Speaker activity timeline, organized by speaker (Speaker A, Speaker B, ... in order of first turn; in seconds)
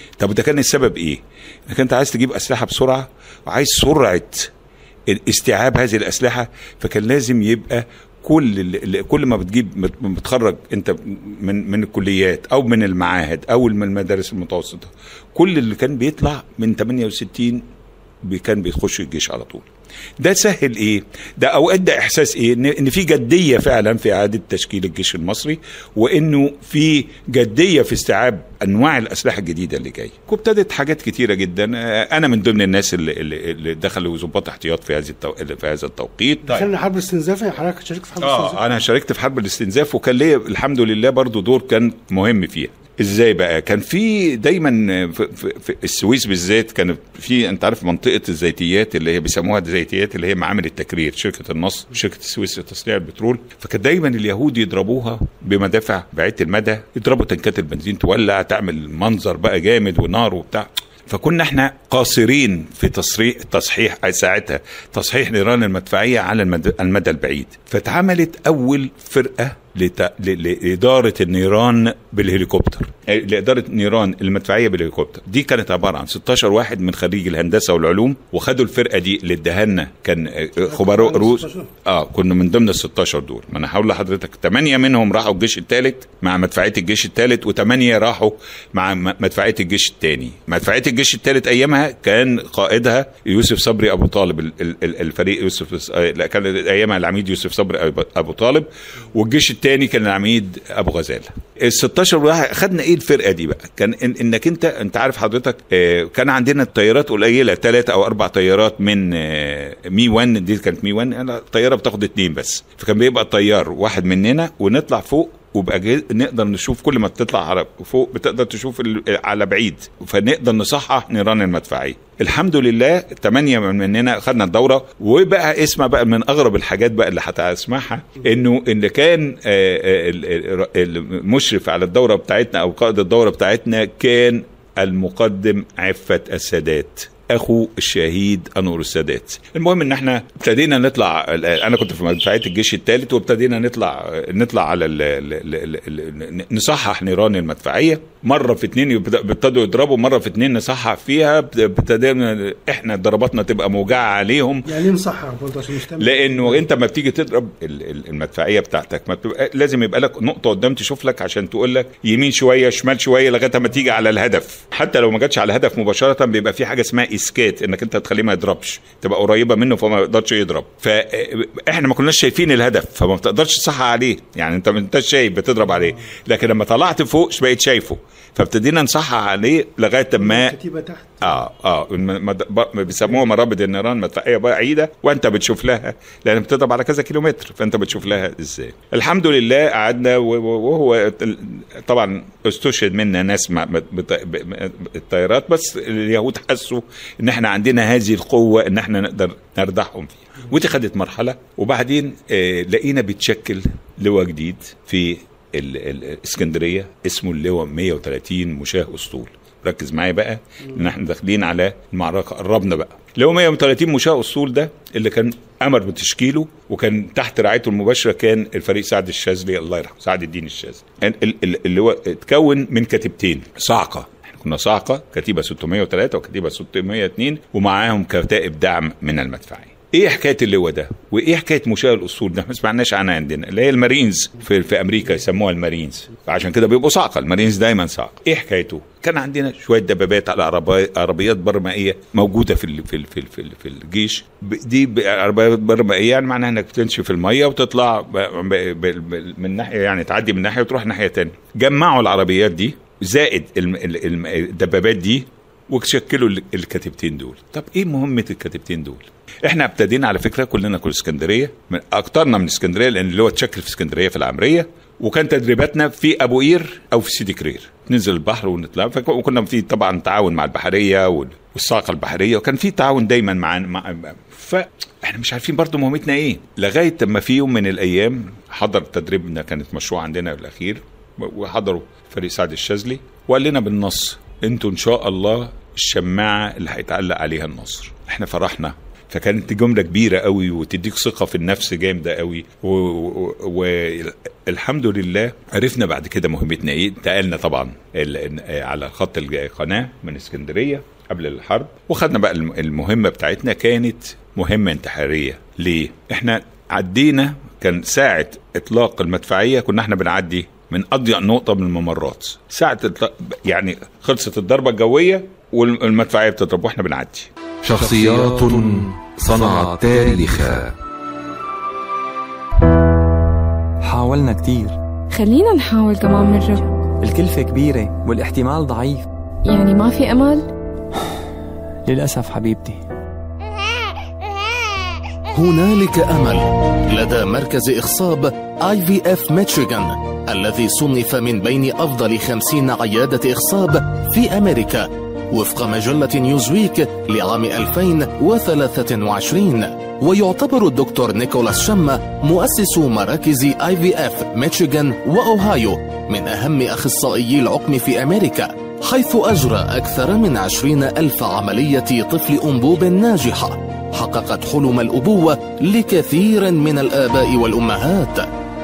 Speaker A: 0.2-4.5, 5.1-17.7, 18.2-19.6, 20.2-36.7, 38.2-154.7, 156.0-180.5, 181.2-317.3
Speaker B: 36.4-38.6, 80.6-81.7, 154.7-156.7, 175.6-175.9, 180.2-181.4
Speaker C: 317.6-320.7
Speaker D: 323.8-324.8, 327.0-329.1, 331.8-332.8
Speaker E: 325.1-326.7, 329.4-330.5
Speaker F: 335.3-368.3